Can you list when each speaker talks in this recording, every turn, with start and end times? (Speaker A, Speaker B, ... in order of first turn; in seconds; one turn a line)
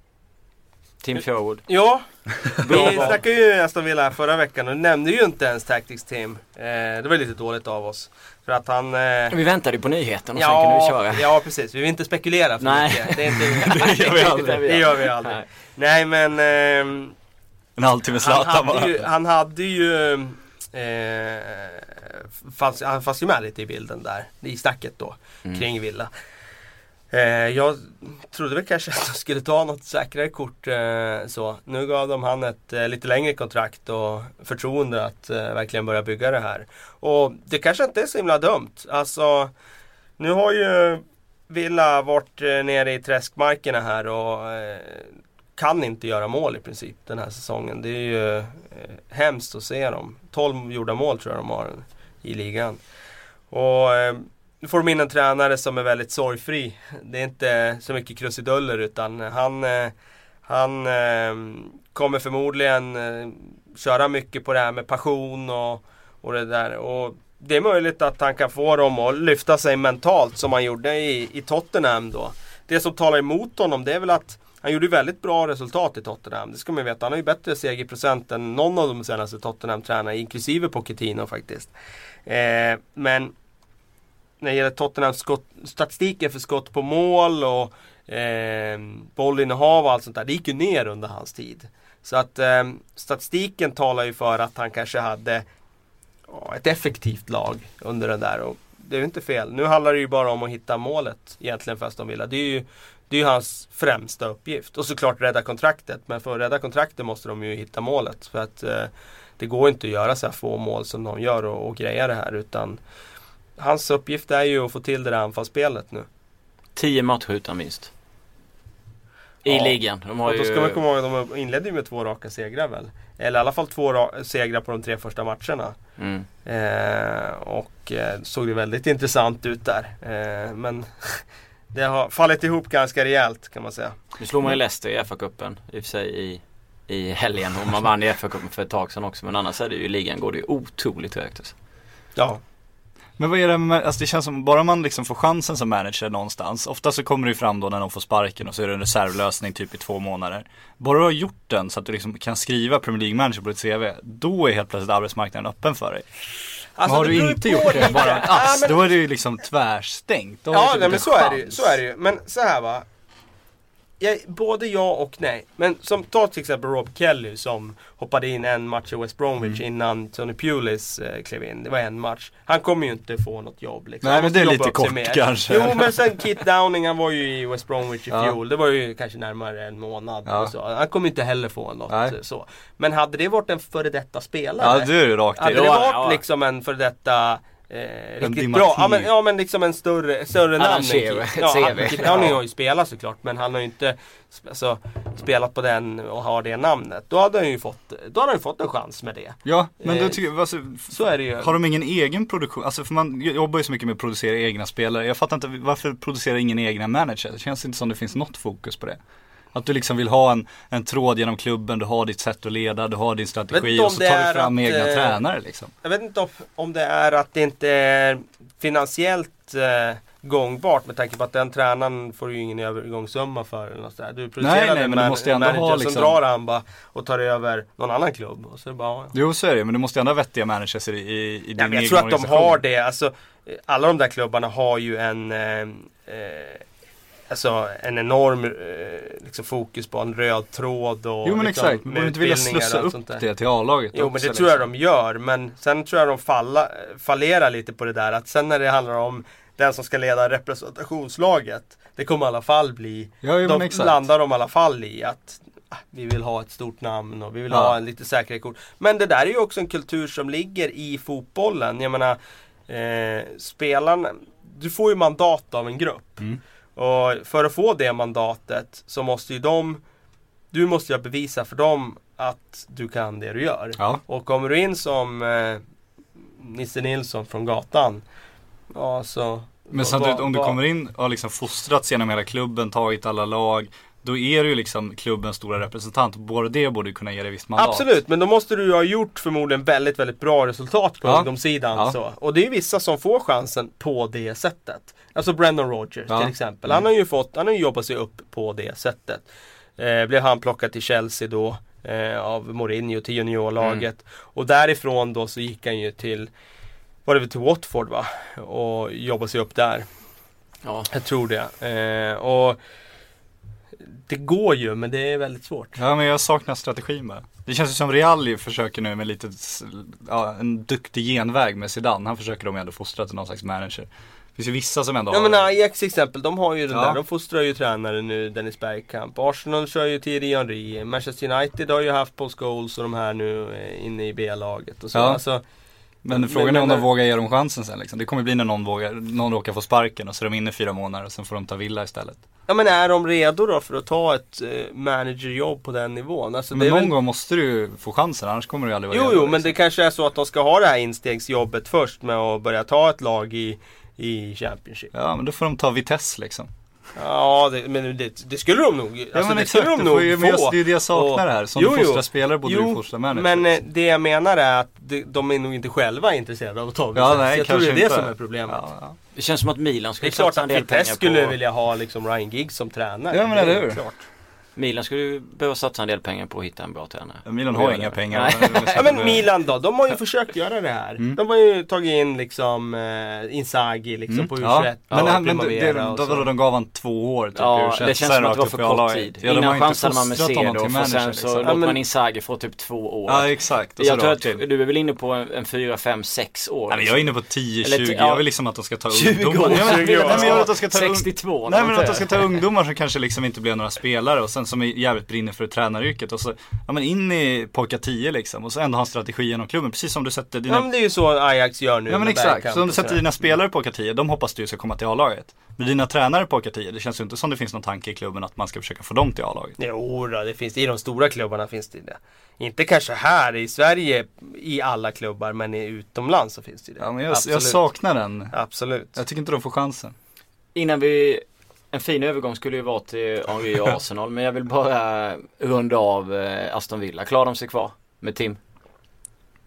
Speaker A: 1.0-1.7
Speaker B: 1.7-9.4
Speaker A: 2.6-3.2
Speaker A: 9.3-11.3
Speaker B: 10.4-17.1
Speaker A: 12.6-15.5
Speaker C: 13.5-14.8
Speaker C: 17.8-19.0
Speaker B: 18.2-26.1
Speaker B: 27.1-39.5
Speaker B: 40.2-52.8
Speaker B: 53.5-59.9
Speaker B: 60.5-81.7
Speaker B: 82.3-83.3
Speaker B: 84.4-95.5
Speaker B: 96.3-112.8
Speaker B: 113.6-116.1
Speaker A: 116.8-117.9
Speaker A: 119.5-120.8
Speaker B: 119.5-125.8
Speaker A: 126.0-126.3
Speaker B: 126.5-134.0
Speaker A: 134.2-141.5
Speaker B: 142.2-142.4
Speaker C: 143.2-156.1
Speaker B: 156.8-158.9
Speaker C: 156.8-161.8
Speaker B: 160.5-162.8
Speaker B: 164.0-200.2
Speaker C: 174.0-175.9
Speaker C: 180.3-180.5
Speaker C: 181.9-182.2
Speaker C: 184.6-185.8
Speaker A: 185.5-186.2
Speaker C: 188.2-189.1
Speaker A: 190.6-192.4
Speaker C: 199.4-209.0
Speaker B: 200.9-201.5
Speaker C: 209.6-215.7
Speaker B: 213.5-215.2
Speaker B: 215.8-229.1
Speaker C: 224.4-226.2
Speaker C: 229.1-232.6
Speaker B: 231.6-236.7
Speaker B: 237.3-243.2
Speaker C: 241.2-244.7
Speaker B: 243.9-269.8
Speaker C: 253.2-254.0
Speaker C: 257.5-257.8
Speaker B: 270.5-275.6
Speaker B: 276.4-278.0
Speaker B: 278.7-280.6
Speaker C: 279.7-287.9
Speaker B: 287.6-299.3
Speaker C: 291.0-291.9
Speaker C: 296.1-296.8
Speaker B: 299.8-306.3
Speaker B: 307.1-309.9
Speaker A: 310.6-310.9
Speaker B: 310.9-312.6
Speaker B: 313.9-315.8
Speaker C: 315.8-325.4
Speaker B: 325.1-335.4
Speaker C: 326.7-327.0
Speaker C: 334.9-335.2
Speaker C: 336.0-342.2
Speaker B: 336.1-336.9
Speaker B: 342.5-346.9
Speaker C: 346.5-349.5
Speaker B: 348.9-354.9
Speaker C: 354.9-356.5
Speaker B: 357.0-368.6
Speaker C: 359.1-363.5
Speaker C: 366.9-369.0
Speaker A: 369.1-371.4
Speaker B: 370.0-374.1
Speaker C: 373.1-373.8
Speaker A: 374.6-379.1
Speaker C: 377.2-379.2
Speaker B: 378.8-386.3
Speaker C: 384.1-391.6
Speaker A: 387.4-397.1
Speaker B: 391.4-391.8
Speaker C: 393.1-394.4
Speaker C: 396.7-410.7
Speaker A: 397.6-398.2
Speaker A: 398.9-402.4
Speaker B: 399.4-400.5
Speaker B: 410.5-413.2
Speaker C: 411.9-419.6
Speaker B: 419.6-427.7
Speaker C: 426.8-428.3
Speaker B: 428.3-429.0
Speaker C: 428.9-429.9
Speaker A: 430.6-438.4